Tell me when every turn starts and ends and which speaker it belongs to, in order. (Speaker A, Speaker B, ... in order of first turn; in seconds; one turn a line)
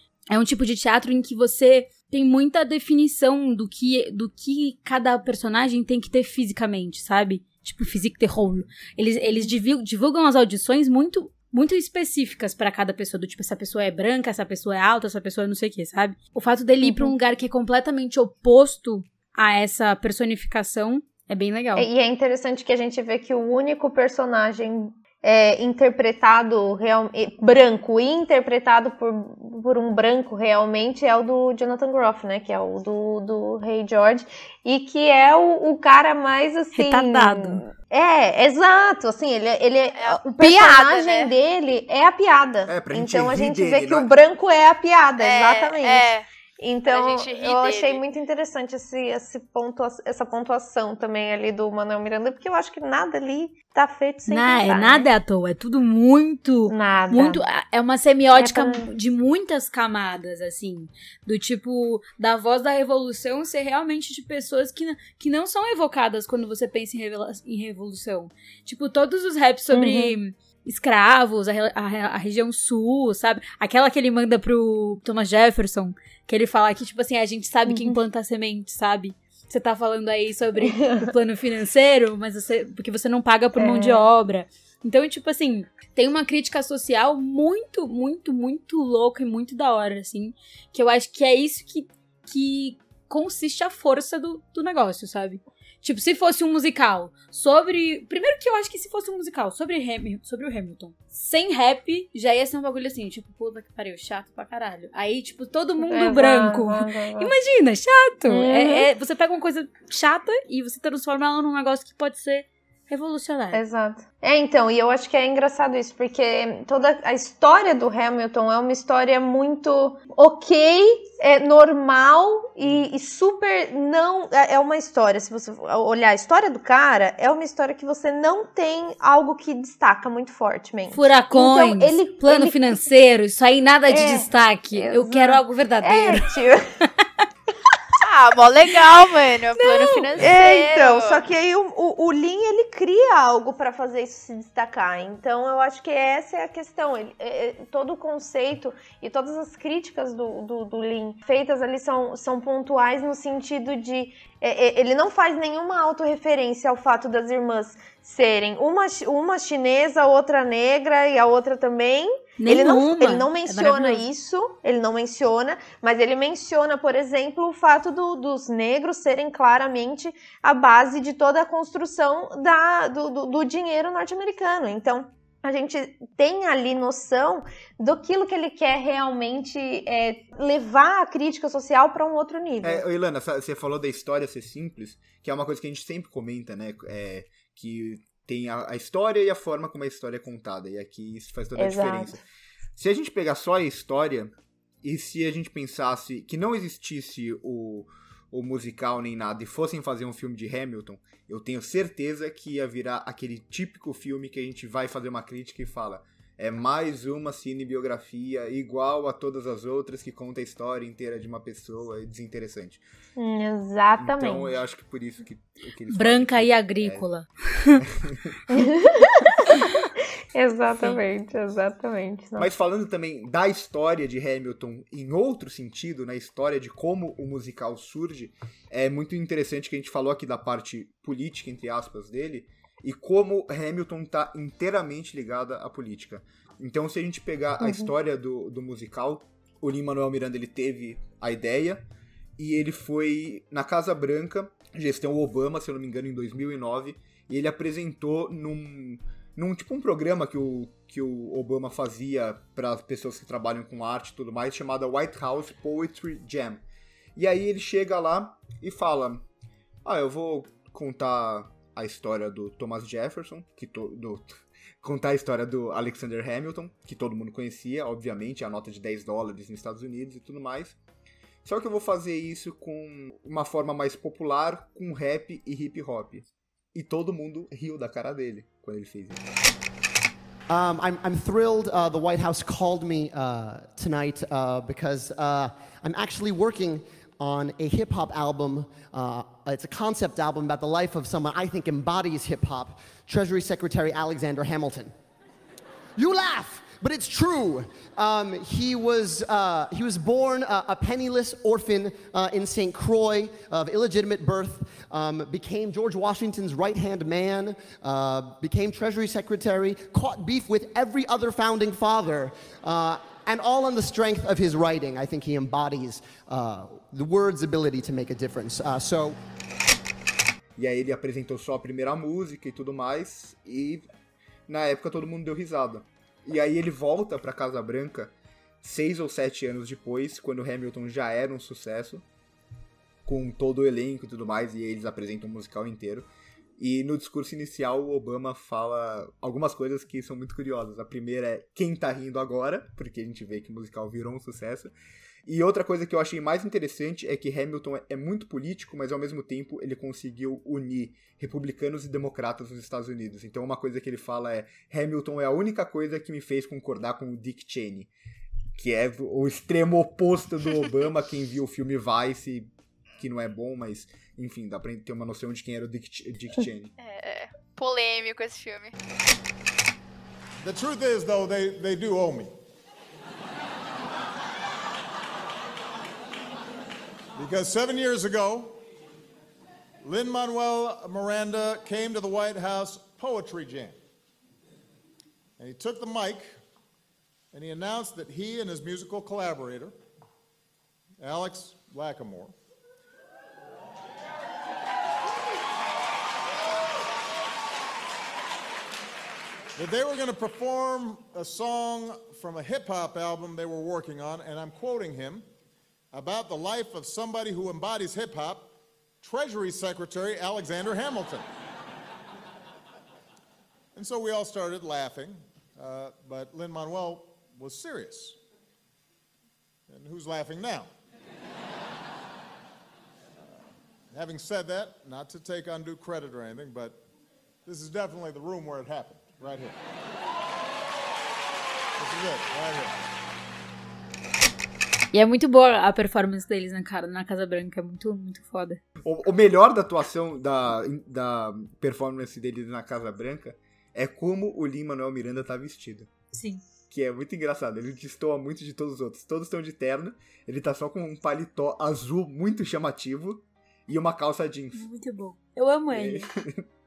Speaker A: 0.3-21.9
Speaker B: 9.3-9.5
Speaker B: 16.8-17.1
Speaker B: 21.8-55.1
Speaker A: 36.7-37.6
Speaker C: 40.0-41.3
Speaker D: 42.7-44.1
Speaker C: 45.2-46.2
Speaker C: 46.9-48.0
Speaker A: 54.3-113.6
Speaker B: 56.7-57.4
Speaker B: 58.3-58.9
Speaker B: 69.7-70.2
Speaker B: 77.7-78.0
Speaker B: 80.6-81.1
Speaker B: 83.5-84.1
Speaker B: 105.8-107.3
Speaker B: 108.3-108.9
Speaker B: 113.5-132.6
Speaker A: 130.9-136.3
Speaker B: 133.9-136.6
Speaker C: 138.0-141.2
Speaker A: 139.6-140.2
Speaker B: 140.2-182.8
Speaker A: 162.4-164.0
Speaker D: 182.6-192.2
Speaker B: 191.6-192.1
Speaker D: 192.8-212.8
Speaker B: 213.2-214.6
Speaker D: 214.0-217.1
Speaker A: 215.9-217.8
Speaker D: 217.8-218.3
Speaker B: 218.5-219.7
Speaker B: 220.3-222.5
Speaker D: 222.4-241.9
Speaker B: 237.6-237.9
Speaker D: 242.4-256.6
Speaker D: 257.2-259.2
Speaker D: 259.8-270.8
Speaker D: 271.4-279.2
Speaker E: 280.5-294.9
Speaker E: 296.0-319.2
Speaker D: 320.6-323.9
Speaker D: 324.5-332.1
Speaker D: 333.1-344.7
Speaker D: 345.3-357.9
Speaker D: 358.6-366.7
Speaker C: 366.8-368.8
Speaker F: 370.4-372.4
Speaker F: 377.2-378.6
Speaker F: 379.8-383.8
Speaker F: 385.4-386.4
Speaker F: 387.3-389.7
Speaker F: 391.0-392.3
Speaker F: 399.6-405.3
Speaker F: 405.9-411.3
Speaker F: 413.7-418.2
Speaker F: 419.7-420.7
Speaker F: 423.9-426.8
Speaker F: 427.4-429.6
Speaker F: 431.8-432.8
Speaker A: 434.9-438.6
Speaker D: 438.8-445.9
Speaker A: 446.1-446.4
Speaker D: 446.7-454.7
Speaker A: 454.5-456.1
Speaker D: 455.7-456.5